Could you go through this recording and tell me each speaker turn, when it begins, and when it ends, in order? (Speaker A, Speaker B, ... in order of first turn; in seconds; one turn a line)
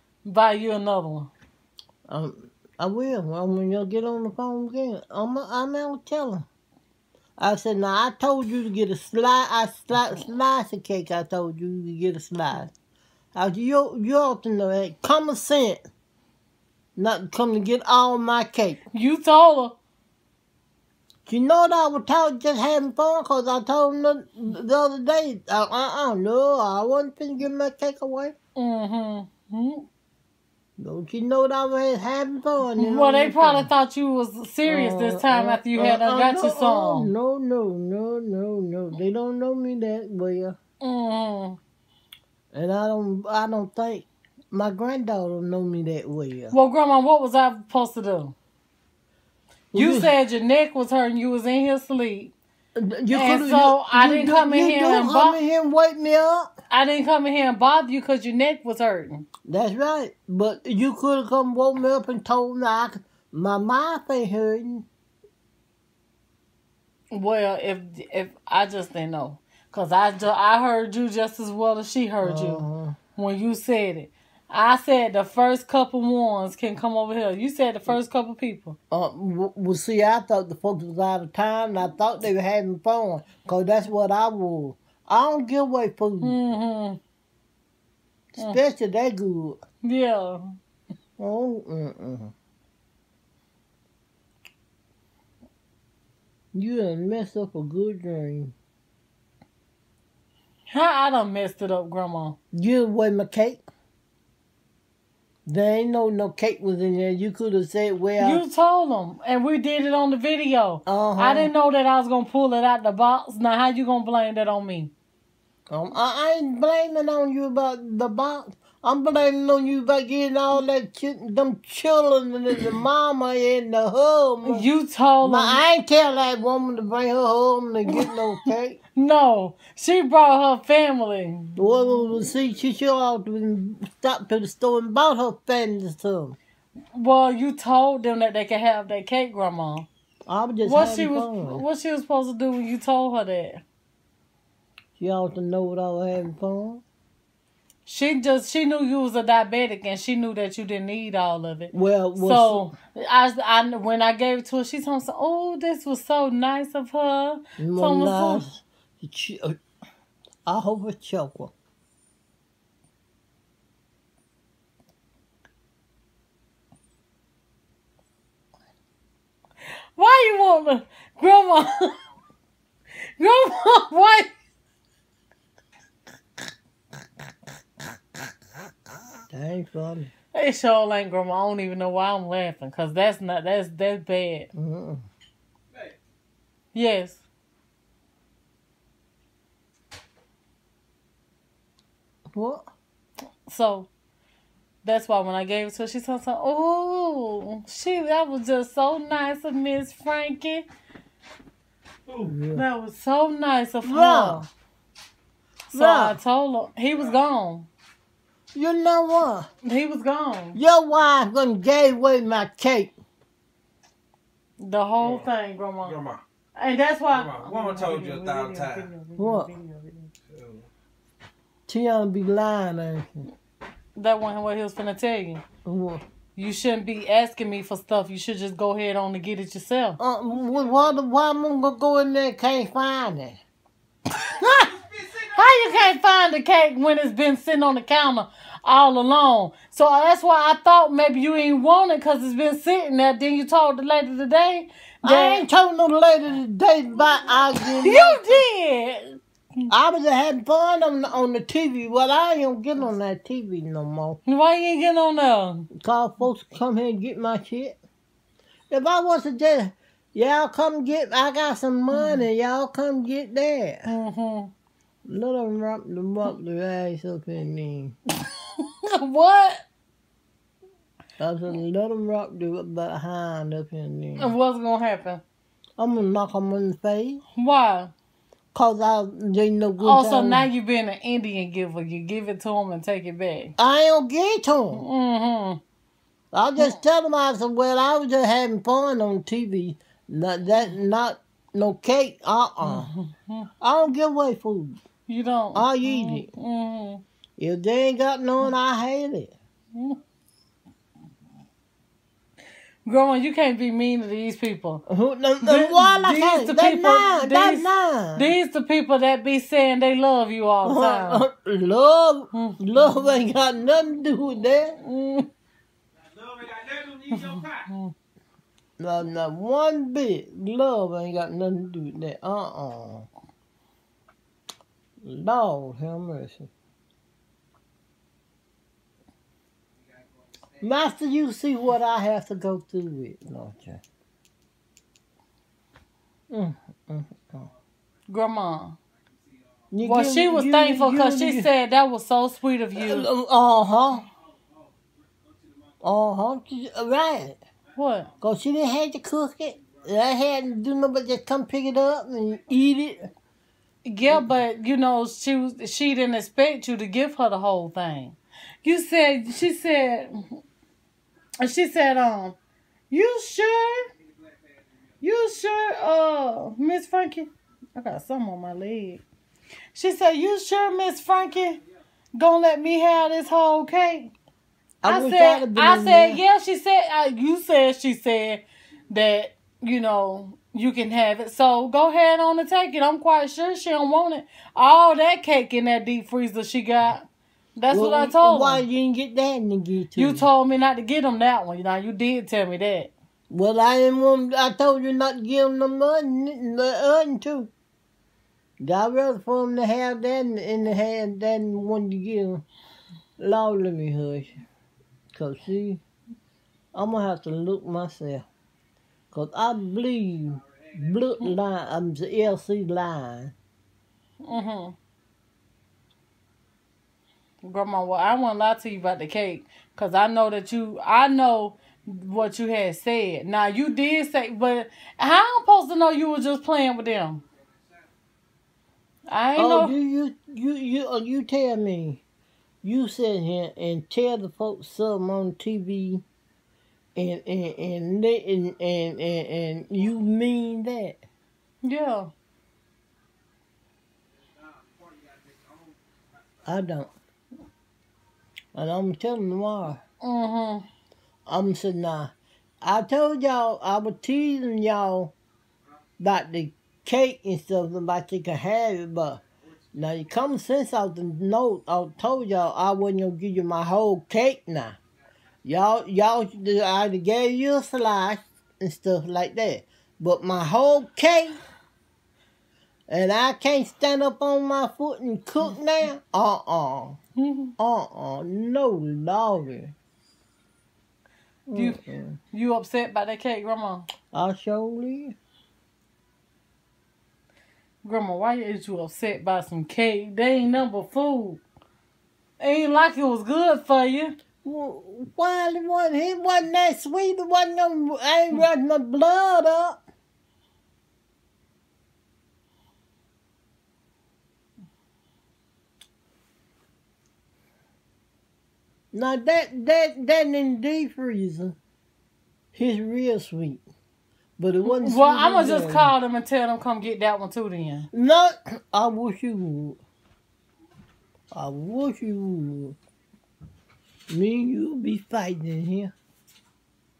Speaker A: 0.2-1.3
Speaker B: 2.1-6.5
Speaker B: 7.4-12.7
Speaker B: 13.3-15.8
Speaker B: 16.9-18.8
Speaker A: 18.9-19.8
Speaker B: 21.2-28.3
Speaker A: 28.6-29.9
Speaker B: 30.8-33.7
Speaker A: 32.7-37.1
Speaker B: 34.6-40.6
Speaker A: 40.8-41.6
Speaker B: 42.5-46.5
Speaker A: 46.5-48.3
Speaker B: 49.7-50.1
Speaker A: 49.7-52.3
Speaker B: 52.7-56.5
Speaker A: 53.1-55.4
Speaker A: 56.7-59.3
Speaker B: 59.5-64.9
Speaker A: 67.1-72.6
Speaker B: 72.2-73.0
Speaker A: 73.2-78.8
Speaker B: 78.9-86.4
Speaker A: 86.2-87.0
Speaker B: 88.3-89.6
Speaker A: 89.8-90.6
Speaker B: 91.2-92.3
Speaker B: 96.5-98.5
Speaker A: 100.7-102.4
Speaker B: 102.5-103.6
Speaker B: 105.5-108.4
Speaker A: 108.2-114.9
Speaker B: 110.8-111.5
Speaker B: 115.7-124.7
Speaker A: 124.4-125.6
Speaker B: 125.2-128.8
Speaker A: 128.9-132.1
Speaker B: 131.6-136.4
Speaker A: 136.9-139.9
Speaker B: 140.3-141.6
Speaker A: 140.6-143.6
Speaker B: 145.0-146.8
Speaker A: 147.8-158.4
Speaker B: 151.7-152.7
Speaker B: 157.6-159.6
Speaker B: 160.4-161.5
Speaker A: 169.9-172.0
Speaker A: 173.2-174.3
Speaker B: 179.3-180.1
Speaker A: 180.3-184.5
Speaker B: 184.5-185.0
Speaker A: 186.7-187.2
Speaker B: 192.3-192.7
Speaker A: 193.5-193.9
Speaker A: 194.8-200.6
Speaker C: 202.1-202.3
Speaker B: 202.2-202.6
Speaker A: 202.5-204.4
Speaker B: 203.8-204.5
Speaker A: 205.7-207.7
Speaker B: 205.7-206.2
Speaker B: 208.5-209.5
Speaker A: 209.6-210.6
Speaker B: 210.5-212.9
Speaker A: 214.6-216.0
Speaker C: 215.0-215.3
Speaker C: 215.8-216.2
Speaker A: 216.6-220.1
Speaker C: 217.1-218.9
Speaker B: 219.2-219.5
Speaker C: 220.3-220.7
Speaker B: 221.7-223.3
Speaker A: 223.9-225.4
Speaker B: 225.6-226.0
Speaker A: 226.3-230.0
Speaker B: 230.0-233.4
Speaker C: 230.3-231.0
Speaker C: 234.3-235.7
Speaker B: 234.3-234.7
Speaker A: 235.3-245.4
Speaker B: 245.0-248.4
Speaker A: 247.8-249.7
Speaker B: 249.7-254.2
Speaker A: 254.2-255.7
Speaker B: 255.7-257.8
Speaker B: 258.7-263.9
Speaker A: 261.9-262.2
Speaker A: 263.9-264.5
Speaker B: 265.1-267.9
Speaker A: 268.5-269.6
Speaker B: 271.2-274.3
Speaker A: 274.2-275.2
Speaker B: 275.8-277.2
Speaker A: 277.3-277.9
Speaker B: 278.5-280.5
Speaker A: 279.8-283.5
Speaker B: 283.6-284.8
Speaker A: 284.7-285.6
Speaker B: 286.3-292.9
Speaker A: 292.6-293.5
Speaker B: 293.6-294.8
Speaker A: 295.1-297.0
Speaker B: 295.5-296.3
Speaker B: 297.4-299.3
Speaker A: 302.9-304.8
Speaker B: 304.9-308.3
Speaker A: 305.4-311.2
Speaker B: 310.6-314.8
Speaker A: 314.8-315.3
Speaker C: 316.0-317.7
Speaker A: 317.1-317.9
Speaker B: 318.8-323.1
Speaker B: 325.0-326.5
Speaker C: 329.8-330.8
Speaker B: 330.6-333.8
Speaker B: 336.3-337.5
Speaker C: 337.3-337.6
Speaker A: 338.1-338.8
Speaker C: 339.1-339.7
Speaker B: 339.7-341.5
Speaker A: 339.8-343.1
Speaker B: 342.7-344.0
Speaker C: 344.1-345.8
Speaker B: 345.8-347.4
Speaker C: 347.7-348.2
Speaker A: 347.7-348.1
Speaker B: 348.2-353.1
Speaker C: 349.6-349.9
Speaker A: 353.8-360.4
Speaker A: 361.4-362.4
Speaker A: 362.9-363.9
Speaker C: 364.0-365.0
Speaker A: 365.0-369.0
Speaker A: 369.7-371.6
Speaker A: 372.1-374.1
Speaker B: 374.8-376.2
Speaker A: 374.9-388.6
Speaker B: 387.7-390.2
Speaker A: 389.9-392.9
Speaker B: 393.3-397.5
Speaker B: 398.6-402.4
Speaker B: 403.2-404.4
Speaker B: 405.1-405.8
Speaker B: 406.7-408.3
Speaker B: 409.1-413.3
Speaker A: 414.2-414.8
Speaker A: 417.4-427.2
Speaker C: 427.2-427.9
Speaker A: 429.1-429.7
Speaker B: 429.4-432.0
Speaker B: 432.6-436.0
Speaker B: 436.9-441.0
Speaker A: 441.6-442.1
Speaker C: 444.2-446.8
Speaker B: 446.4-446.9
Speaker B: 448.5-449.8
Speaker A: 450.0-450.7
Speaker B: 451.3-455.1
Speaker B: 456.0-459.2
Speaker C: 459.4-459.7
Speaker B: 459.7-464.8
Speaker B: 465.4-471.4
Speaker B: 472.9-477.0
Speaker A: 477.2-477.5
Speaker B: 477.6-479.7
Speaker B: 481.5-482.2
Speaker A: 481.5-481.8
Speaker A: 482.3-483.9
Speaker B: 484.1-485.1
Speaker A: 487.8-491.4
Speaker A: 492.4-494.1
Speaker B: 494.4-499.8
Speaker B: 508.9-511.6
Speaker B: 512.5-513.6
Speaker B: 514.4-515.9
Speaker A: 514.6-517.9
Speaker B: 517.9-519.8
Speaker B: 521.3-522.8
Speaker B: 524.1-525.9